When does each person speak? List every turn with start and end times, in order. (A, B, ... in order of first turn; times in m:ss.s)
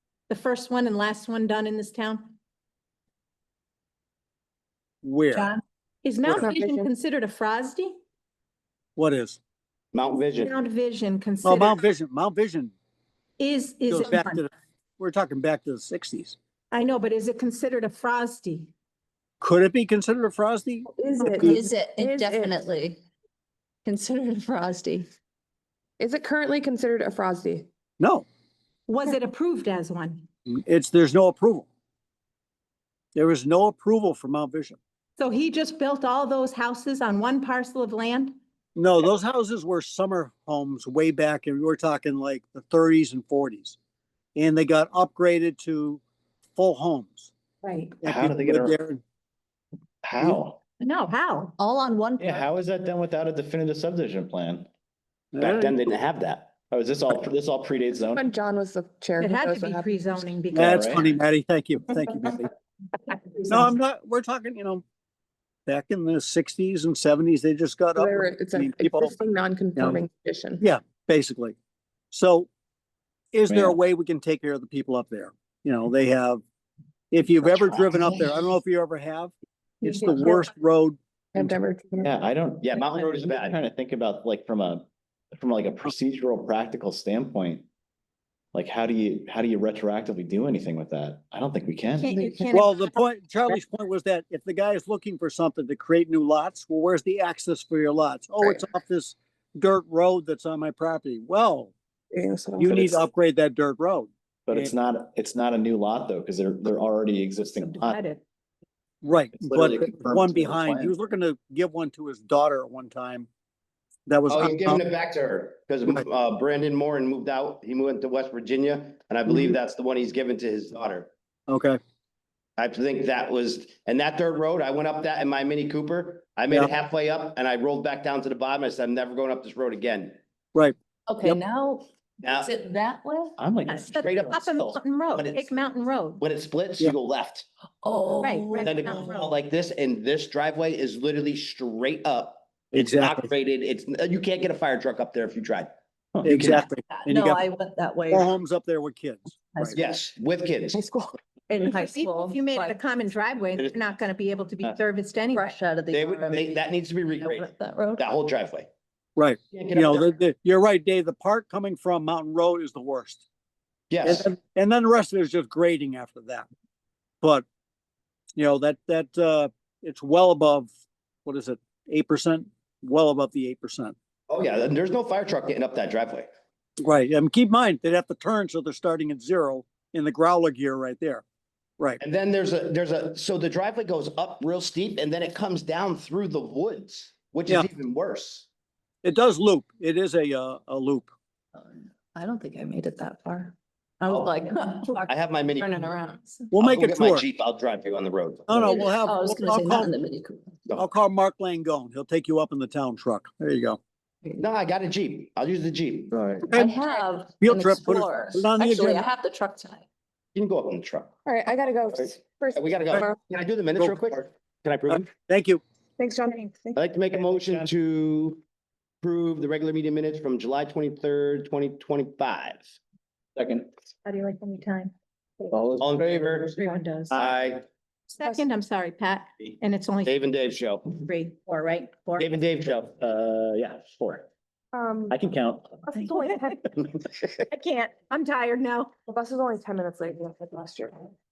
0:00.3-0:02.4 A
0:05.0-0:05.5 B
0:06.0-0:08.0 A
0:06.3-0:06.5 B
0:06.4-0:06.8 C
0:09.0-0:09.4 B
0:09.9-0:10.5 D
0:10.4-0:11.8 A
0:11.4-0:12.7 B
0:13.4-0:14.5 A
0:13.9-0:16.4 B
0:16.7-0:18.7 A
0:19.4-0:21.6 B
0:20.9-0:22.6 C
0:21.2-0:21.6 A
0:21.5-0:23.0 E
0:23.8-0:25.1 E
0:26.0-0:27.7 C
0:28.0-0:28.2 B
0:28.9-0:30.2 A
0:30.5-0:31.7 B
0:33.2-0:34.8 B
0:35.2-0:38.4 A
0:38.8-0:43.8 B
0:44.4-0:46.0 B
0:46.6-0:47.3 B
0:47.6-0:47.9 A
0:48.0-0:49.0 B
0:48.0-0:48.8 F
0:50.0-0:50.6 F
0:50.8-0:51.6 A
0:51.6-0:52.4 E
0:52.2-0:54.7 F
0:55.3-0:55.8 B
0:55.4-0:56.5 D
0:56.7-0:58.3 F
0:58.1-1:00.1 C
0:59.2-1:00.9 A
1:00.5-1:01.2 F
1:00.5-1:02.5 B
1:03.1-1:03.7 A
1:03.5-1:04.8 B
1:05.7-1:09.2 B
1:08.0-1:10.7 C
1:09.8-1:10.0 B
1:10.6-1:11.6 B
1:12.1-1:12.5 B
1:13.3-1:16.4 B
1:13.5-1:13.8 F
1:17.1-1:21.0 B
1:19.8-1:20.5 C
1:21.4-1:22.1 C
1:21.4-1:27.7 F
1:22.6-1:23.6 D
1:28.5-1:32.4 F
1:32.0-1:33.0 A
1:32.5-1:41.7 B
1:42.1-1:42.8 C
1:42.6-1:44.7 B
1:42.6-1:43.1 F
1:44.5-1:48.0 F
1:47.6-1:48.2 A
1:49.0-1:53.3 B
1:49.4-1:50.9 F
1:54.1-1:54.8 B
1:54.3-2:01.1 D
2:01.5-2:01.8 B
2:02.6-2:10.2 D
2:10.6-2:11.4 B
2:11.1-2:13.4 E
2:12.2-2:12.5 D
2:13.4-2:14.8 F
2:13.7-2:16.2 A
2:14.0-2:14.4 D
2:15.1-2:15.6 D
2:16.2-2:17.5 D
2:17.8-2:19.1 E
2:18.2-2:19.3 A
2:18.6-2:25.7 D
2:22.7-2:23.3 B
2:26.2-2:27.4 B
2:26.2-2:26.7 D
2:26.9-2:28.4 E
2:28.1-2:29.8 B
2:29.6-2:29.8 E
2:29.8-2:30.8 D
2:30.7-2:32.8 E
2:31.6-2:35.6 A
2:33.6-2:33.8 D
2:35.3-2:38.1 E
2:35.9-2:38.7 D
2:39.2-2:43.2 B
2:39.5-2:40.1 D
2:43.9-2:44.3 D
2:44.0-2:46.5 B
2:48.4-2:50.7 B
2:51.2-2:53.9 B
2:54.3-2:56.3 D
2:56.8-3:01.2 B
3:02.0-3:08.5 D
3:09.0-3:11.1 B
3:11.6-3:16.5 E
3:15.1-3:15.9 D
3:16.5-3:17.3 B
3:16.6-3:18.7 D
3:18.5-3:19.9 B
3:18.6-3:20.5 E
3:20.8-3:23.8 B
3:24.4-3:26.2 D
3:26.1-3:26.5 F
3:26.5-3:26.8 B
3:26.5-3:29.8 E
3:27.4-3:29.1 B
3:30.4-3:31.1 D
3:31.3-3:33.2 C
3:31.9-3:35.1 D
3:33.8-3:34.1 B
3:34.9-3:35.6 B
3:36.0-3:36.8 C
3:36.8-3:38.4 D
3:37.2-3:37.7 F
3:39.0-3:42.7 D
3:43.4-3:43.7 F
3:44.0-3:45.5 A
3:45.5-3:46.3 F
3:45.8-3:46.6 D
3:46.6-3:47.2 A
3:47.1-3:47.6 D
3:48.1-3:50.2 A
3:50.0-3:50.9 D
3:50.9-3:52.4 A
3:52.2-3:53.0 D
3:53.0-3:54.3 F
3:54.7-3:55.2 C
3:55.1-3:55.9 F
3:55.9-3:56.6 C
3:56.0-3:56.6 A
3:57.5-3:58.9 A
3:59.1-4:01.1 C